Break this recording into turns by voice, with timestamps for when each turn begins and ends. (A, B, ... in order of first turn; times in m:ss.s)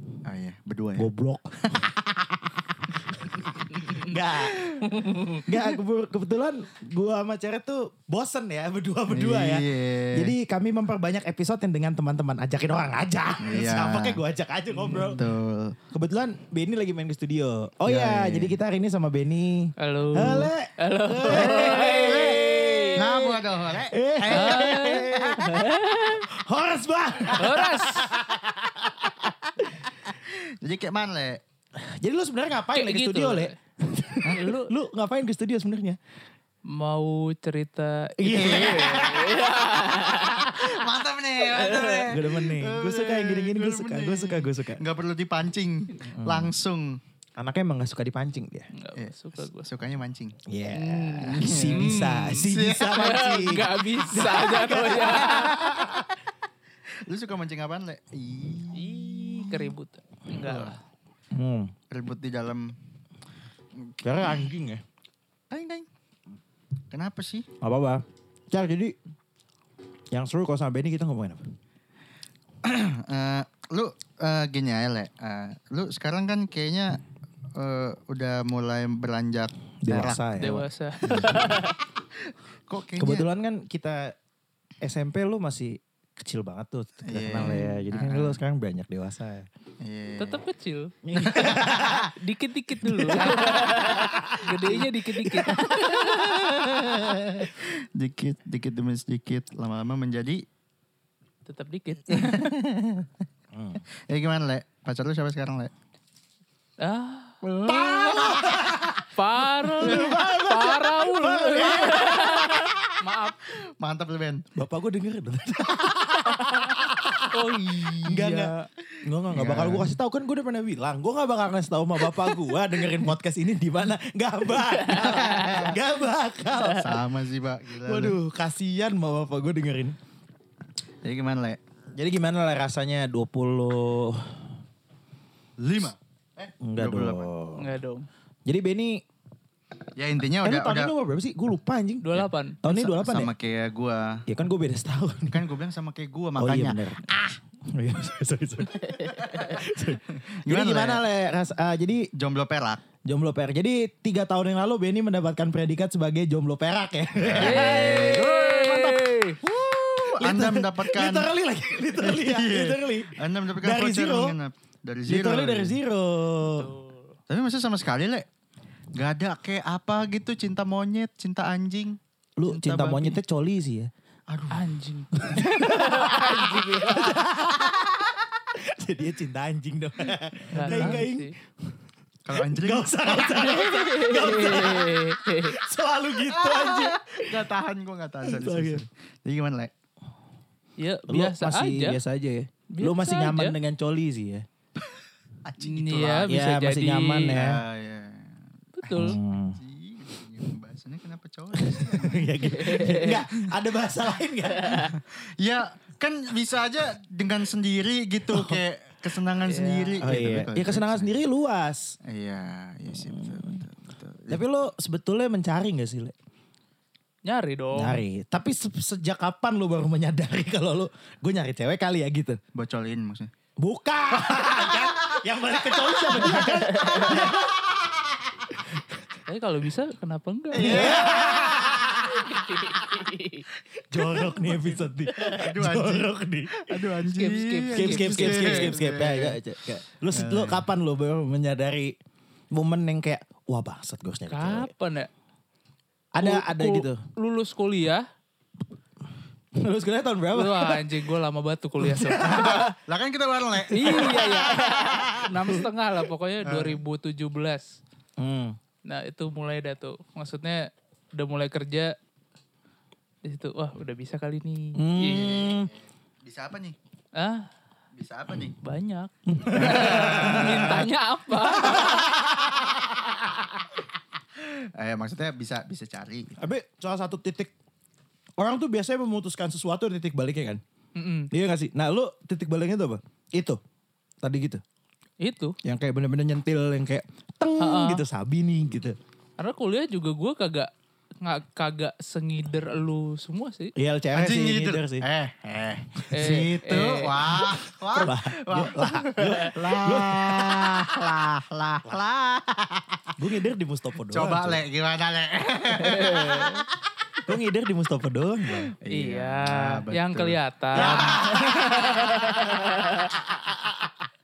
0:00.2-0:01.1 A
0:01.0-0:01.9 B
0:02.5-0:15.2 B
0:03.7-0:04.2 C
0:04.6-0:04.8 A
0:04.8-0:05.4 C
0:09.1-0:10.3 A
0:13.4-0:14.2 A
0:14.9-0:15.8 A
0:15.9-0:25.7 B
0:17.9-0:18.6 A
0:19.8-0:23.3 C
0:21.3-0:25.5 A
0:24.3-0:26.3 C
0:26.3-0:29.2 B
0:27.4-0:28.1 C
0:29.5-0:31.4 A
0:31.8-0:36.0 B
0:32.7-0:33.6 C
0:34.3-0:34.7 C
0:36.7-0:40.6 C
0:38.2-0:40.1 B
0:38.3-0:39.4 A
0:40.2-0:47.0 A
0:41.5-0:42.1 C
0:42.1-0:44.8 B
0:46.1-0:46.5 B
0:47.4-0:48.7 B
0:48.7-0:49.7 C
0:49.0-0:50.4 A
0:50.5-0:56.1 B
0:50.7-0:55.8 C
0:51.3-0:53.2 A
0:55.5-0:56.0 A
0:57.1-0:59.7 A
0:58.7-1:00.8 C
1:00.4-1:00.7 A
1:01.3-1:01.8 B
1:01.9-1:02.8 A
1:03.8-1:04.5 A
1:04.0-1:04.8 B
1:05.5-1:05.9 A
1:06.9-1:07.5 A
1:07.6-1:09.0 B
1:10.1-1:11.5 B
1:12.6-1:17.0 A
1:17.6-1:20.2 A
1:19.8-1:21.6 B
1:20.4-1:21.8 C
1:21.1-1:21.4 A
1:22.7-1:23.3 A
1:23.0-1:24.2 B
1:24.8-1:29.5 B
1:27.1-1:28.4 A
1:29.8-1:30.4 A
1:30.1-1:36.4 C
1:31.0-1:32.1 B
1:31.2-1:32.1 A
1:33.1-1:35.5 B
1:35.7-1:40.4 A
1:41.4-1:42.5 C
1:42.1-1:43.1 A
1:43.5-1:43.8 B
1:44.1-1:45.7 A
1:46.8-1:47.4 C
1:47.4-1:49.0 A
1:47.6-1:49.0 B
1:49.1-1:53.5 C
1:49.6-1:52.4 B
1:49.8-1:50.4 A
1:51.6-1:53.0 A
1:53.6-1:54.4 A
1:54.6-1:57.4 B
1:56.3-1:56.7 C
1:57.3-1:58.7 C
1:57.7-1:58.3 A
1:58.0-2:07.0 B
1:59.3-1:59.9 A
2:04.7-2:05.7 C
2:04.9-2:05.8 A
2:06.8-2:08.2 A
2:07.8-2:10.0 B
2:11.0-2:11.6 A
2:12.0-2:14.6 B
2:15.6-2:16.0 A
2:16.5-2:17.3 A
2:16.6-2:17.7 B
2:17.6-2:18.1 C
2:18.5-2:19.0 B
2:20.0-2:20.9 A
2:20.4-2:23.3 B
2:22.0-2:22.9 C
2:22.8-2:24.2 A
2:24.3-2:25.5 B
2:25.3-2:26.8 A
2:26.4-2:32.1 B
2:28.8-2:29.5 C
2:30.3-2:31.0 A
2:32.1-2:32.8 A
2:33.0-2:38.3 B
2:37.2-2:41.3 A
2:37.4-2:39.4 C
2:40.0-2:44.4 B
2:41.9-2:45.8 A
2:45.1-2:46.7 B
2:46.4-2:47.2 C
2:47.3-2:48.2 A
2:49.0-2:53.2 A
2:52.4-2:53.9 B
2:54.3-2:54.7 A
2:54.5-2:57.2 C
2:55.2-2:58.0 B
2:58.5-3:01.8 B
3:00.5-3:01.3 C
3:00.6-3:01.0 A
3:02.2-3:03.3 A
3:02.3-3:07.4 B
3:03.3-3:05.6 C
3:06.3-3:09.7 A
3:08.2-3:08.8 B
3:10.8-3:12.0 C
3:11.1-3:14.5 B
3:12.7-3:13.6 C
3:15.4-3:16.3 A
3:15.6-3:17.4 C
3:16.3-3:17.6 B
3:17.3-3:23.2 A
3:18.8-3:19.2 C
3:19.0-3:19.6 B
3:21.5-3:25.0 B
3:22.5-3:23.2 C
3:24.5-3:24.9 C
3:24.7-3:31.1 A
3:28.3-3:28.6 B
3:29.4-3:30.0 C
3:30.0-3:32.0 B
3:32.0-3:34.4 A
3:32.9-3:33.6 B
3:34.3-3:36.2 B
3:37.2-3:38.0 C
3:37.8-3:42.4 B
3:42.6-3:43.3 A
3:43.6-3:47.6 B
3:46.0-3:47.4 A
3:46.7-3:47.1 C
3:48.5-3:49.0 B
3:49.3-3:51.3 C
3:50.5-3:52.4 A
3:50.6-3:52.1 B
3:52.1-3:53.4 C
3:53.8-3:56.7 B
3:54.2-3:54.6 A
3:55.2-3:59.4 A
3:57.1-3:58.7 C
3:57.7-4:02.0 B
4:00.1-4:00.7 A
4:02.5-4:04.7 B
4:04.3-4:05.1 C
4:06.1-4:07.0 B
4:06.2-4:08.1 C
4:09.6-4:10.9 B
4:10.3-4:12.7 C
4:11.8-4:12.7 B
4:12.2-4:15.6 A
4:13.7-4:17.8 C
4:13.8-4:14.5 B
4:16.5-4:16.8 A
4:18.2-4:18.6 B
4:18.8-4:22.0 C
4:23.2-4:25.3 C
4:24.8-4:25.7 B
4:25.0-4:26.8 A
4:27.2-4:27.5 C
4:28.0-4:28.6 A
4:28.6-4:32.1 C
4:29.3-4:30.9 B
4:29.6-4:30.8 A
4:31.4-4:32.2 B
4:34.4-4:36.4 A
4:36.4-4:37.5 B
4:38.4-4:40.6 B
4:41.0-4:41.3 C
4:41.3-4:43.6 B
4:44.2-4:44.6 B
4:45.2-4:45.6 C
4:45.6-4:49.0 B
4:47.6-4:48.0 C
4:49.4-4:53.7 C
4:53.8-4:55.1 B
4:54.1-5:03.1 A
4:56.0-4:56.6 B
4:56.1-4:57.4 C
4:57.9-5:01.0 B
5:03.2-5:04.6 B
5:04.1-5:06.6 A
5:05.7-5:06.6 C
5:07.3-5:08.7 B
5:08.8-5:11.2 A
5:08.9-5:13.1 C
5:10.7-5:13.9 B